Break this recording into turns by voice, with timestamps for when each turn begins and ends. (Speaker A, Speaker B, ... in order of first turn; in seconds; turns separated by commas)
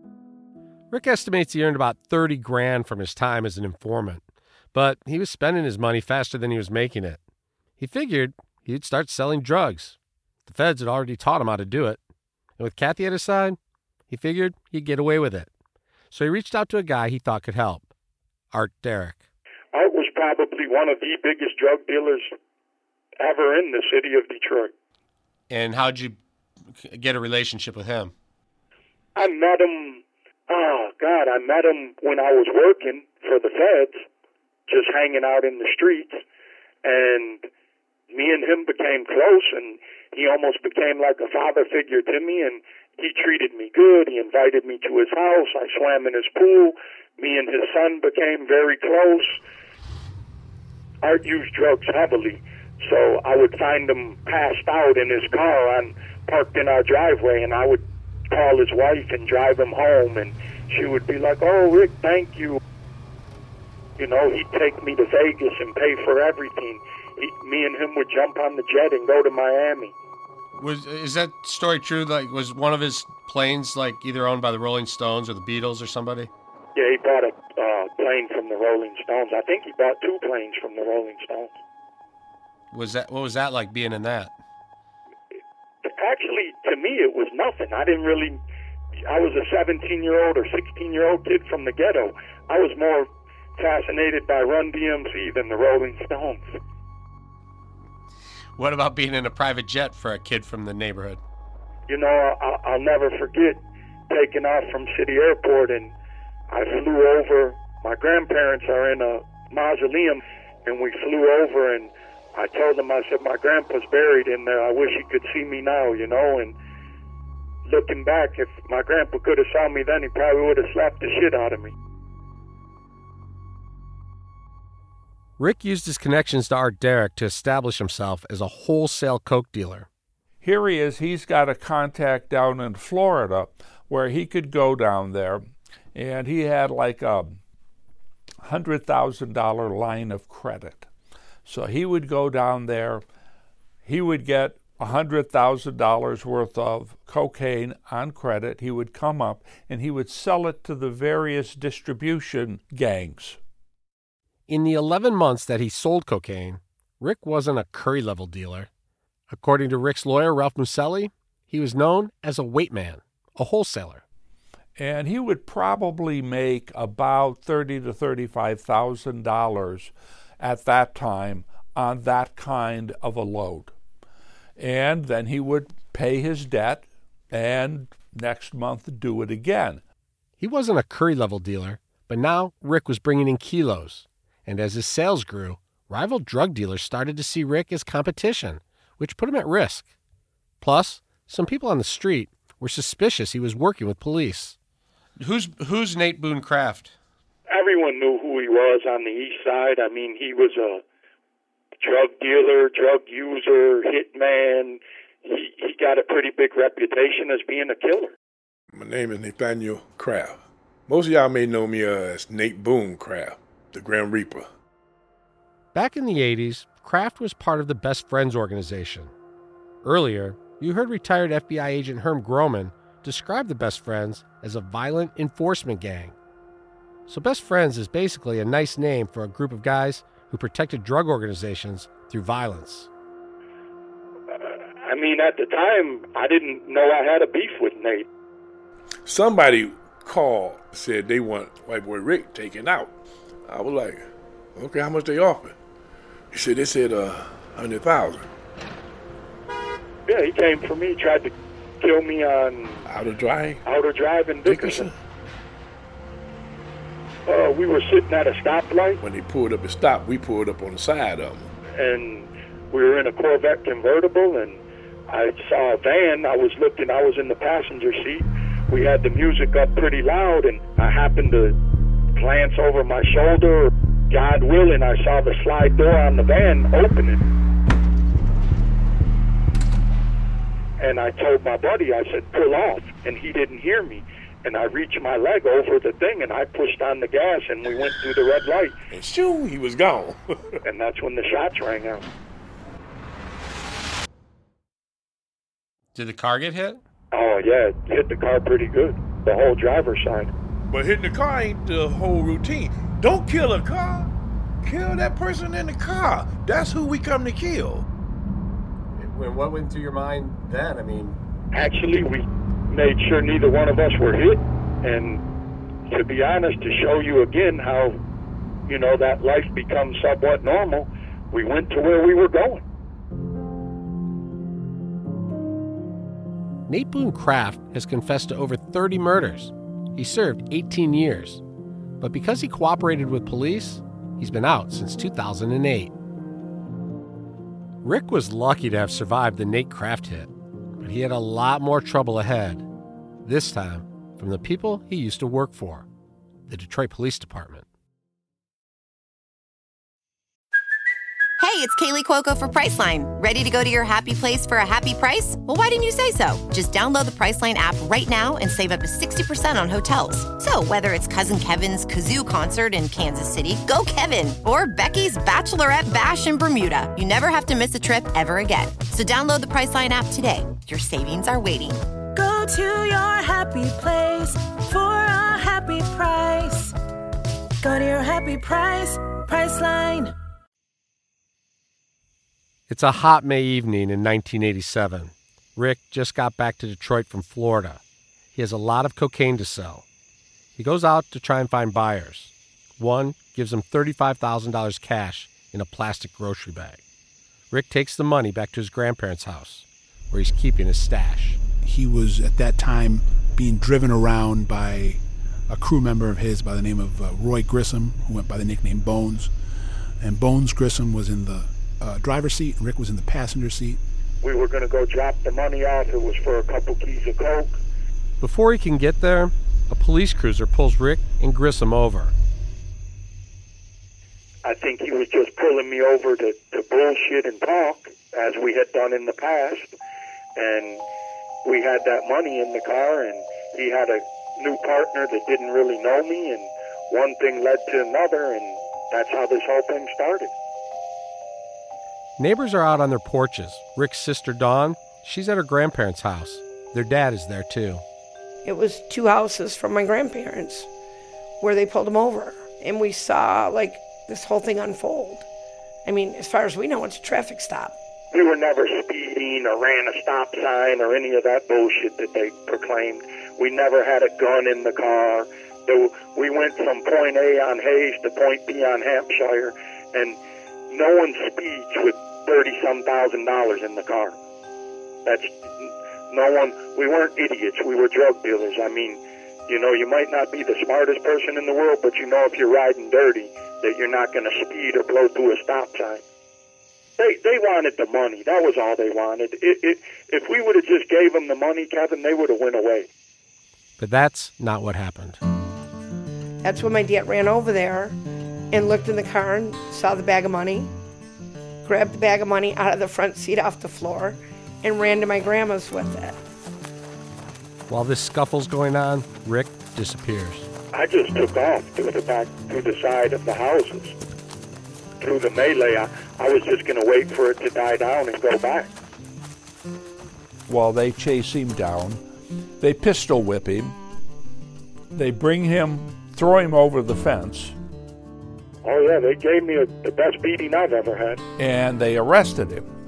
Speaker A: 0.9-4.2, Speaker A: 4.7-7.2, Speaker A: 7.8-12.0, Speaker A: 12.6-13.6, Speaker A: 14.1-15.5, Speaker A: 16.1-17.9, Speaker A: 18.5-19.2, Speaker B: 19.7-22.3, Speaker B: 23.2-24.7, Speaker A: 25.5-26.2, Speaker A: 26.8-28.1, Speaker B: 29.2-34.0, Speaker B: 34.7-36.2, Speaker B: 36.8-37.5, Speaker B: 38.1-49.4, Speaker B: 51.0-62.6, Speaker B: 64.0-70.0, Speaker A: 70.6-76.3, Speaker B: 76.8-81.6, Speaker A: 82.7-84.3, Speaker B: 85.8-88.4, Speaker B: 89.1-96.6, Speaker A: 98.6-101.2, Speaker B: 101.9-105.9, Speaker B: 106.5-116.5, Speaker B: 117.7-121.7, Speaker A: 125.4-129.9, Speaker C: 130.4-135.4, Speaker C: 135.9-137.4, Speaker C: 138.5-140.9, Speaker C: 141.5-143.0, Speaker C: 143.8-153.4, Speaker A: 154.5-158.7, Speaker A: 159.3-164.0, Speaker C: 164.8-173.7, Speaker C: 174.6-179.8, Speaker A: 180.4-189.9, Speaker A: 190.6-194.6, Speaker A: 195.2-196.9, Speaker B: 197.5-200.8, Speaker B: 201.8-208.1, Speaker D: 208.7-210.4, Speaker D: 210.9-214.5, Speaker A: 215.7-219.1, Speaker A: 219.8-226.2, Speaker A: 227.1-232.9, Speaker B: 234.3-238.1, Speaker D: 239.1-242.9, Speaker D: 243.5-244.0, Speaker D: 244.6-245.6, Speaker D: 246.3-248.2, Speaker B: 250.1-252.8, Speaker D: 252.9-253.6, Speaker B: 253.6-254.9, Speaker D: 254.4-254.9, Speaker B: 257.3-259.0, Speaker D: 259.0-261.5, Speaker B: 261.7-271.6, Speaker B: 272.2-277.2, Speaker B: 280.8-288.8, Speaker D: 288.9-290.6, Speaker B: 290.6-292.1, Speaker A: 295.9-296.8, Speaker B: 297.1-300.3, Speaker D: 300.7-304.1, Speaker D: 304.6-307.9, Speaker A: 309.0-311.2, Speaker B: 311.5-315.2, Speaker B: 315.9-318.0, Speaker B: 318.7-322.6, Speaker A: 326.7-331.4, Speaker A: 332.0-335.9, Speaker A: 337.8-342.7, Speaker A: 343.2-345.9, Speaker A: 346.5-347.7, Speaker E: 351.4-371.8, Speaker F: 372.1-376.8, Speaker F: 377.6-380.1, Speaker A: 382.7-387.8, Speaker A: 388.3-389.9, Speaker A: 390.6-396.8, Speaker A: 397.5-401.4, Speaker G: 401.6-409.3, Speaker G: 410.0-413.8, Speaker B: 414.2-417.6, Speaker A: 418.2-422.1, Speaker B: 424.4-429.7, Speaker B: 430.4-430.8, Speaker B: 431.4-440.3, Speaker A: 442.2-447.8, Speaker H: 448.4-450.7, Speaker H: 451.4-455.3, Speaker H: 455.9-457.8, Speaker B: 458.1-470.2, Speaker B: 470.7-474.2, Speaker B: 475.1-486.0, Speaker B: 487.0-492.9, Speaker A: 493.8-495.2, Speaker H: 496.4-498.0, Speaker H: 498.5-500.7, Speaker H: 501.6-506.2, Speaker A: 507.7-510.5, Speaker B: 510.7-514.0, Speaker B: 515.0-518.7, Speaker C: 520.5-522.0, Speaker C: 522.6-523.8, Speaker C: 524.9-527.6, Speaker B: 528.6-531.2, Speaker C: 531.4-532.7